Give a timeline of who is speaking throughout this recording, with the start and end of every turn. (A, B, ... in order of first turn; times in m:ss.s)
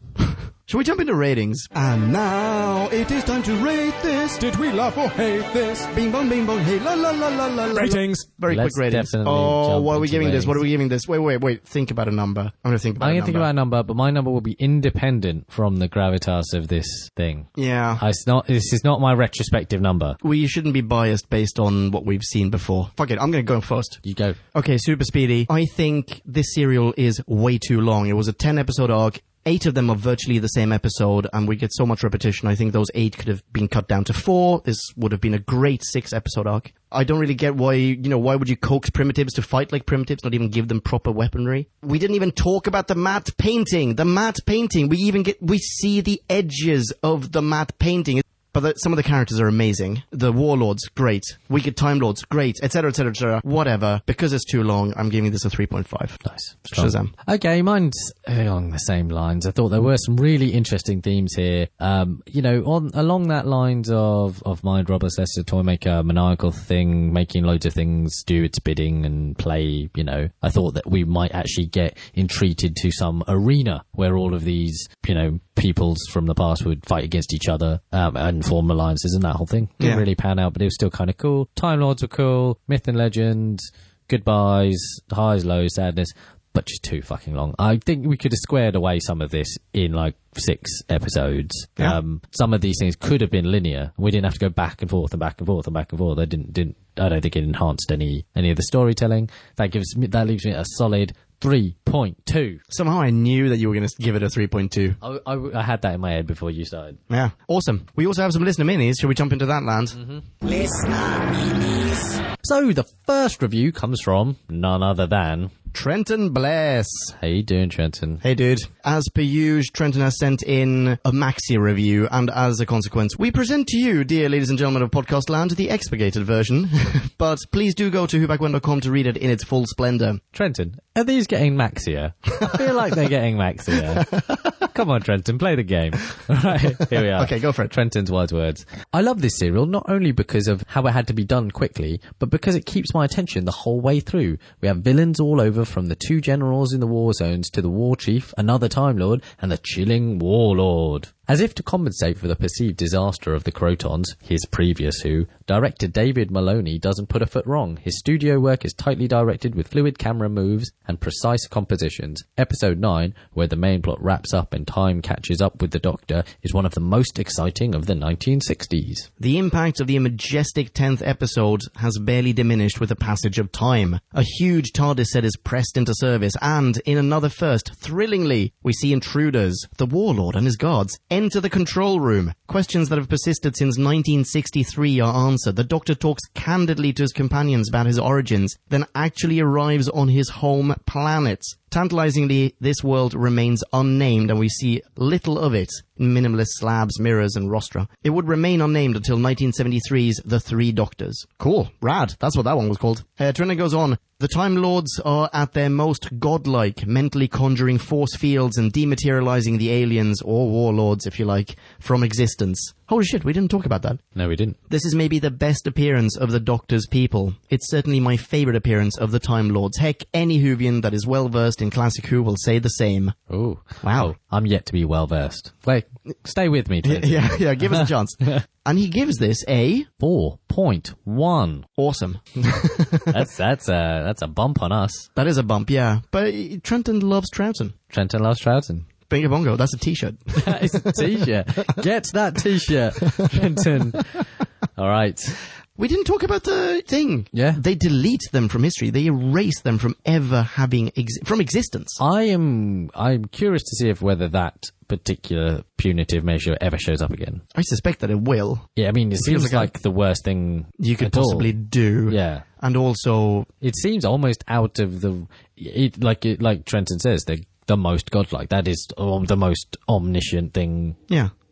0:00.2-0:04.4 A
0:04.4-0:05.9 B
0:05.9-0:13.5 A
0:07.7-0:08.0 B
0:08.5-0:10.6 C
0:13.0-0:20.2 C
0:17.6-0:18.0 A
0:20.2-0:24.0 A
0:24.0-0:24.4 C
0:24.5-0:57.1 A
0:56.2-1:42.6 C
1:19.8-1:20.0 A
1:42.7-1:45.0 A
1:45.0-1:47.0 C
1:47.1-1:51.4 A
1:49.9-1:50.3 C
1:52.2-1:55.5 C
1:55.7-1:57.2 A
1:57.2-1:58.2 C
1:58.2-2:10.2 A
2:10.3-2:49.1 C
2:12.4-2:12.7 A
2:13.9-2:14.5 A
2:17.0-2:17.7 A
2:49.2-3:34.0 A
3:34.1-3:34.6 C
3:34.7-3:43.2 A
3:43.3-3:48.4 C
3:43.8-3:44.1 A
3:46.8-3:49.9 A
3:50.0-3:51.6 C
3:51.8-3:53.2 A
3:53.1-3:55.1 C
3:55.2-3:57.7 A
3:57.9-3:58.9 C
3:59.1-4:01.3 A
4:00.4-4:04.2 C
4:03.1-4:03.4 A
4:04.8-4:05.4 C
4:05.8-4:12.0 A
4:07.3-4:07.6 C
4:12.0-4:17.4 C
4:17.5-4:19.7 A
4:18.8-4:21.6 C
4:20.8-4:23.5 A
4:22.1-4:22.4 C
4:23.6-4:31.0 C